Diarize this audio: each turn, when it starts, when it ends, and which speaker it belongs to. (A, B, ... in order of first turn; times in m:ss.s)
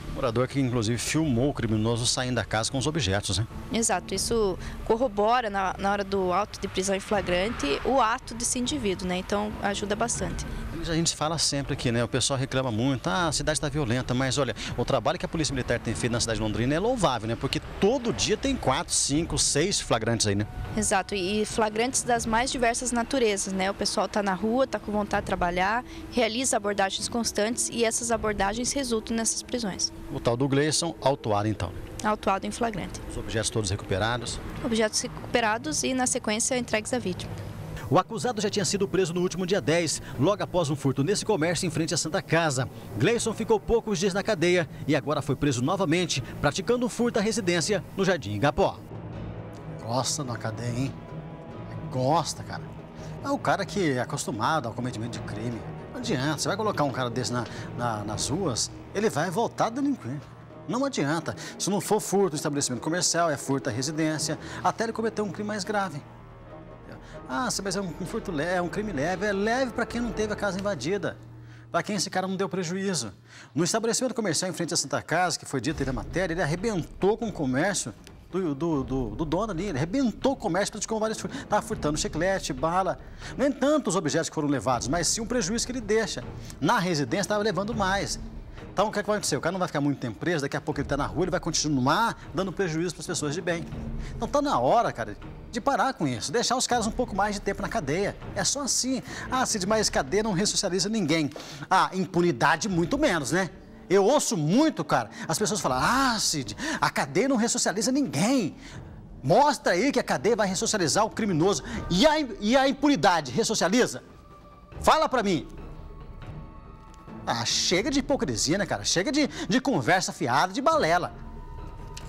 0:00.1-0:03.5 A
0:03.7-0:10.5 B
0:10.7-0:20.5 A
0:20.7-0:29.9 B
0:30.1-0:31.8 A
0:32.0-0:33.0 B
0:33.1-0:34.4 A
0:34.6-0:37.3 B
0:37.9-0:48.8 A
0:49.8-0:51.0 A
0:51.7-0:52.7 A
0:53.2-1:06.0 A
1:06.9-1:11.2 A
1:11.7-1:28.2 A
1:28.8-1:33.7 A
1:34.2-1:48.6 A
1:49.2-1:54.0 A
1:54.8-1:55.5 A
1:57.2-2:01.1 A